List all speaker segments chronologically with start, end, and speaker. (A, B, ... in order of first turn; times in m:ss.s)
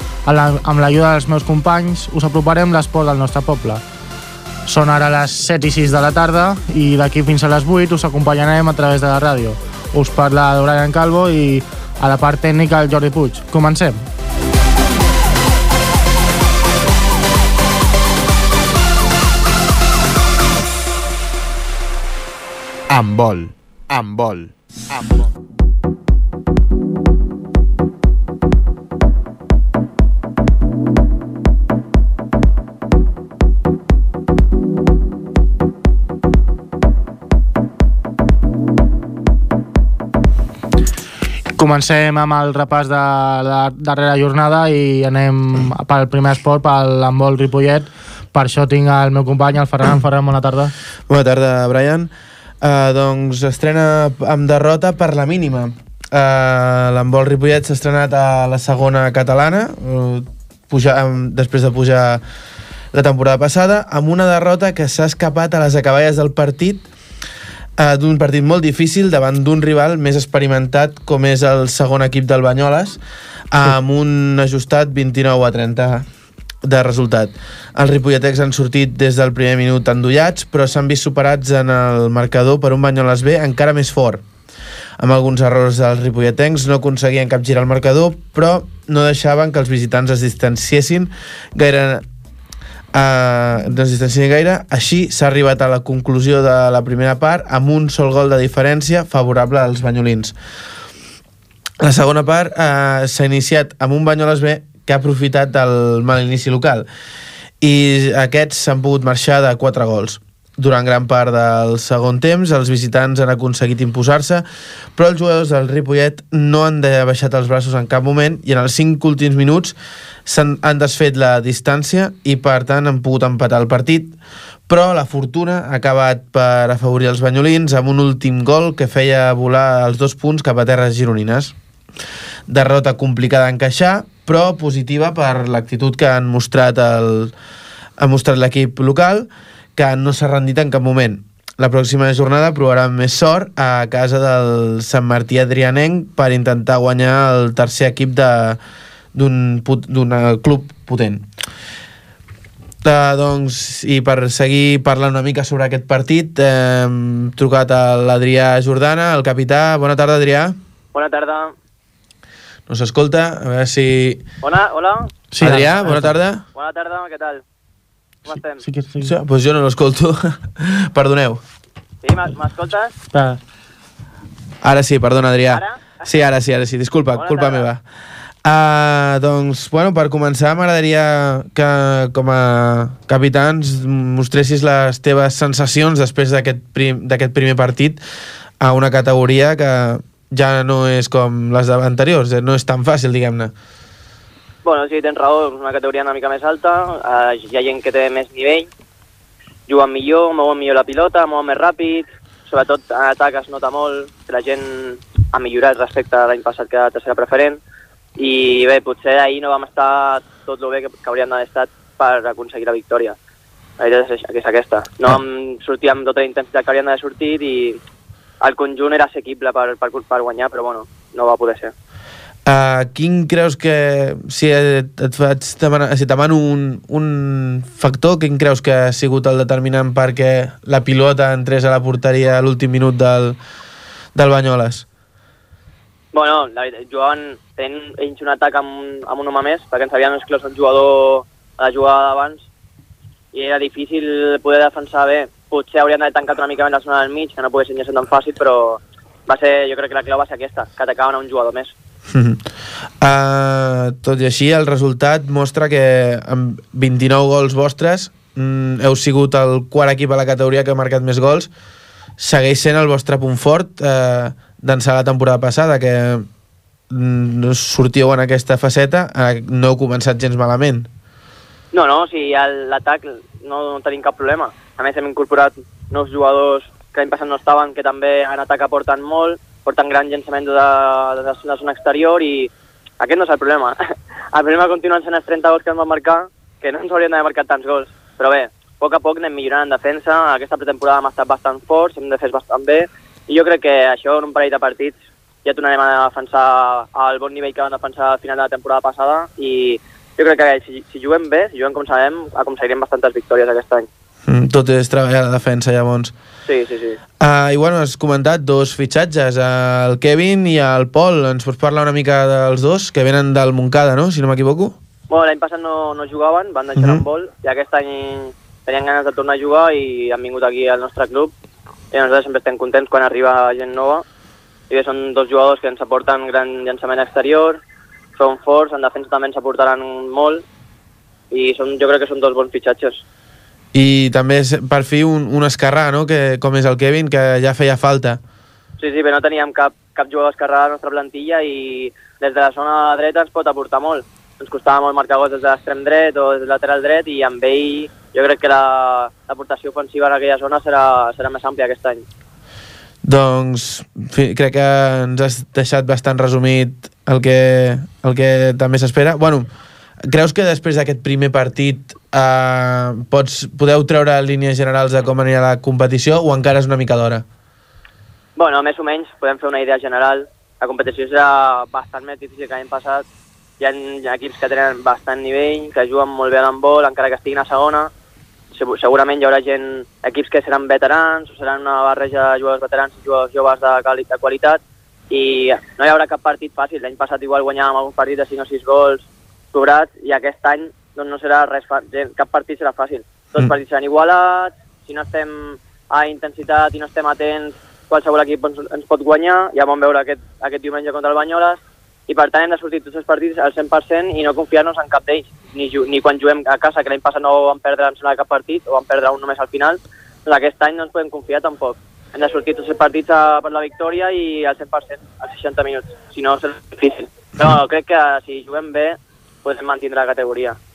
0:00.2-0:03.8 A
0:04.6-0:14.0 A
0:22.9-0:25.2 B
0:41.6-0:50.7 A
0:51.1-0:52.1 C
0:52.6-1:02.2 C
1:02.9-1:06.8 C
1:07.8-1:13.0 C
1:13.5-1:16.0 C
1:16.6-1:24.2 C
1:25.0-1:32.0 C
1:32.9-1:40.3 C
1:41.8-1:46.8 C
1:47.6-1:54.4 C
1:55.0-1:59.7 C
2:00.2-2:04.1 C
2:04.7-2:11.5 C
2:12.5-2:17.3 C
2:18.0-2:28.6 C
2:29.1-2:31.2 C
2:32.8-2:40.6 C
2:40.9-2:41.5 D
2:42.7-2:44.2 C
2:44.4-2:45.6 D
2:45.3-2:46.1 A
2:45.4-2:46.4 C
2:46.5-2:47.4 D
2:48.2-2:48.6 D
2:48.6-2:49.1 A
2:49.0-2:51.4 C
2:52.0-2:52.9 D
2:53.1-2:53.4 A
2:54.6-2:57.8 C
2:55.5-2:55.8 D
2:57.1-2:57.7 D
2:58.4-3:08.0 C
3:08.6-3:13.5 C
3:14.6-3:18.7 D
3:19.7-3:27.6 D
3:28.2-3:33.2 D
3:33.8-3:37.8 D
3:38.4-3:41.7 D
3:42.4-3:53.4 C
3:54.1-3:54.8 C
3:56.1-4:02.4 D
4:03.3-4:11.7 D
4:12.1-4:12.4 C
4:13.0-4:21.5 C
4:22.2-4:26.3 C
4:26.9-4:30.9 C
4:31.7-4:43.8 D
4:44.3-5:03.9 D
5:04.3-5:06.1 C
5:06.4-5:07.0 D
5:07.2-5:14.8 C
5:15.1-5:21.3 D
5:16.8-5:17.0 C
5:21.9-5:24.0 D
5:24.7-5:27.6 D
5:28.2-5:30.4 D
5:31.3-5:33.0 D
5:33.7-5:38.2 C
5:38.8-5:52.0 D
5:53.0-5:59.5 C
6:00.1-6:07.2 C
6:08.4-6:13.0 D
6:13.6-6:17.9 D
6:18.5-7:00.6 D